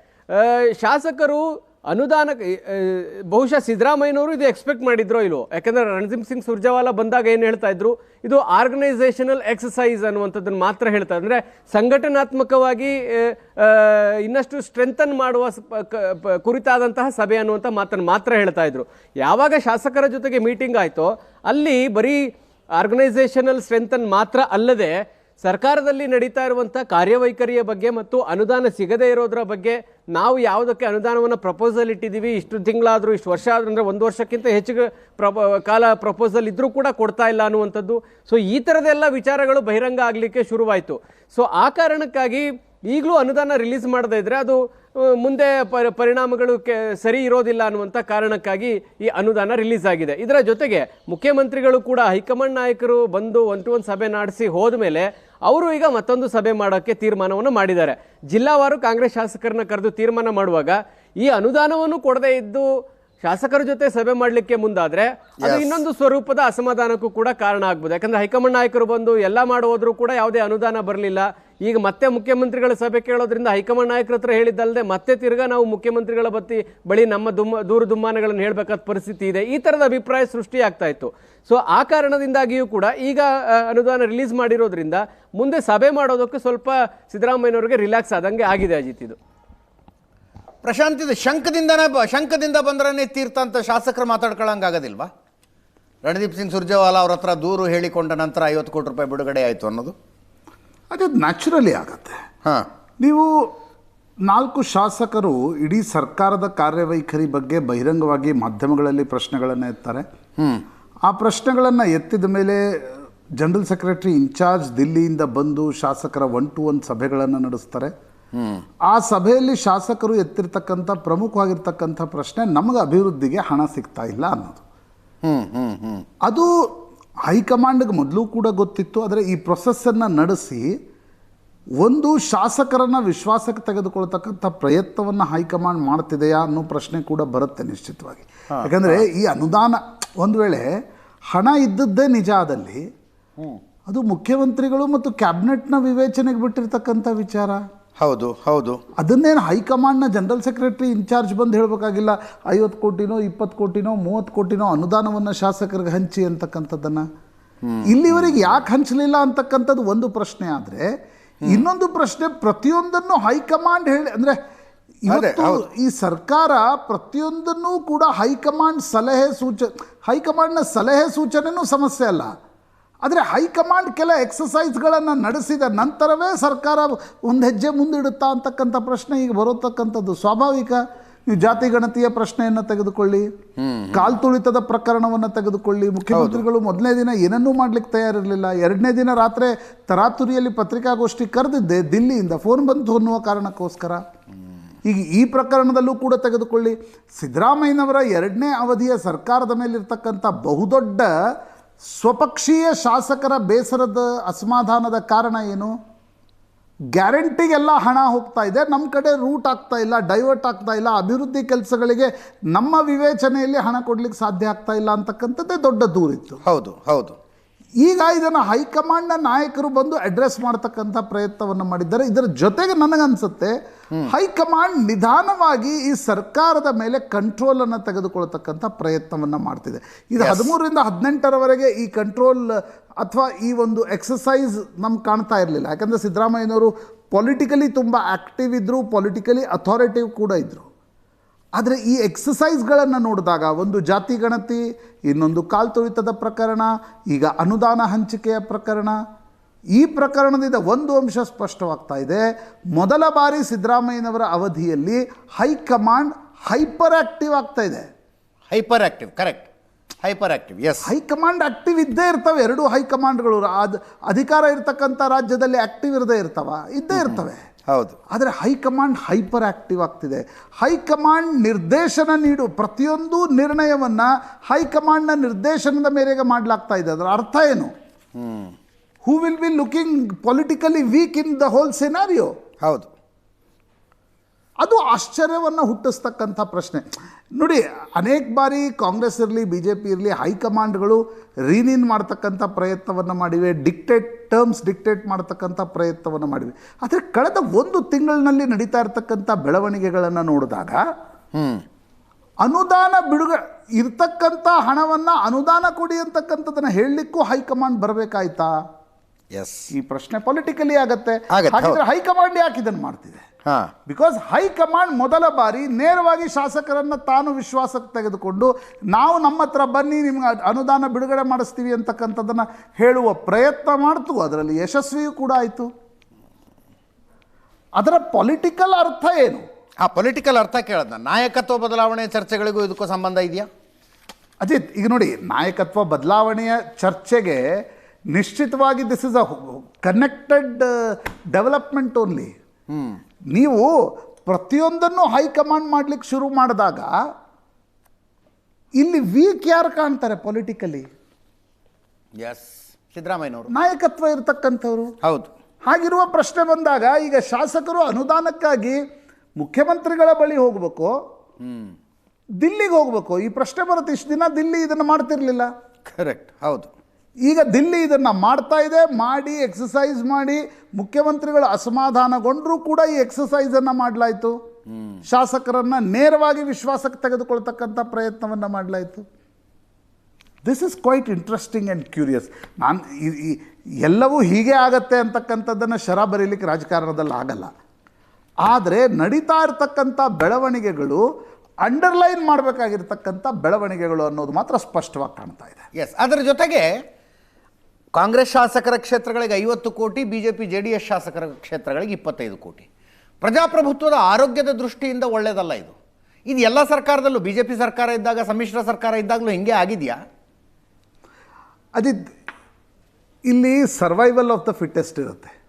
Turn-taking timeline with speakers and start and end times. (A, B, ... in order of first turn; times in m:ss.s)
0:00.3-1:02.7 A
1:03.2-1:29.2 A
1:05.4-1:05.8 B
1:30.6-1:35.1 B
1:36.0-1:40.0 B
1:40.9-1:42.2 C
1:43.0-1:43.3 C
1:44.3-1:50.0 C
1:50.4-1:50.6 B
1:51.1-1:52.6 C
1:53.4-1:57.9 C
1:58.4-1:58.6 B
1:58.9-2:04.6 C
2:05.2-2:06.1 B
2:07.3-2:10.8 C
2:11.8-2:20.7 C
2:18.5-2:19.1 B
2:21.3-2:22.8 C
2:23.9-2:27.6 C
2:28.0-2:28.8 B
2:29.0-2:37.0 C
2:37.6-2:38.5 B
2:37.9-2:40.9 C
2:41.5-2:44.4 C
2:45.1-2:45.6 B
2:45.1-2:52.3 C
2:53.0-3:03.3 C
3:03.6-3:04.1 B
3:03.9-3:14.0 C
3:06.1-3:06.4 B
3:14.8-3:21.1 C
3:22.0-3:25.7 C
3:27.0-3:36.4 C
3:36.4-3:37.2 B
3:37.8-3:43.6 C
3:44.1-4:00.7 C
3:50.2-3:50.5 B
4:01.6-4:09.0 C
4:09.8-4:12.2 C
4:12.8-4:17.9 C
4:18.5-4:19.5 B
4:20.0-4:20.9 B
4:20.8-4:27.4 C
4:27.7-4:28.0 B
4:28.1-4:37.7 C
4:38.2-4:38.5 B
4:39.0-4:42.3 C
4:42.6-4:42.9 B
4:44.6-4:46.8 C
4:47.4-5:00.8 C
5:01.4-5:01.6 B
5:02.4-5:08.5 C
5:09.3-5:09.7 B
5:09.8-5:13.2 C
5:11.3-5:11.8 B
5:13.9-5:25.7 C
5:27.8-5:29.4 C
5:29.8-5:33.5 B
5:34.4-5:37.4 C
5:38.1-5:40.7 C
5:41.3-5:42.3 C
5:43.3-5:43.7 C
5:44.3-5:46.9 C
5:48.8-5:50.9 C
5:52.2-5:53.5 B
5:53.5-5:54.9 C
5:55.0-5:55.3 B
5:55.7-5:58.8 C
5:59.4-6:00.9 C
6:02.4-6:05.5 C
6:05.9-6:06.7 B
6:07.2-6:14.4 C
6:15.1-6:19.0 C
6:20.4-6:27.5 C
6:28.4-6:31.0 C
6:31.6-6:35.6 C
6:35.8-6:36.7 B
6:37.9-6:42.7 B
6:43.2-6:45.8 B
6:46.3-6:50.0 B
6:51.8-6:52.0 C
6:53.3-6:55.3 C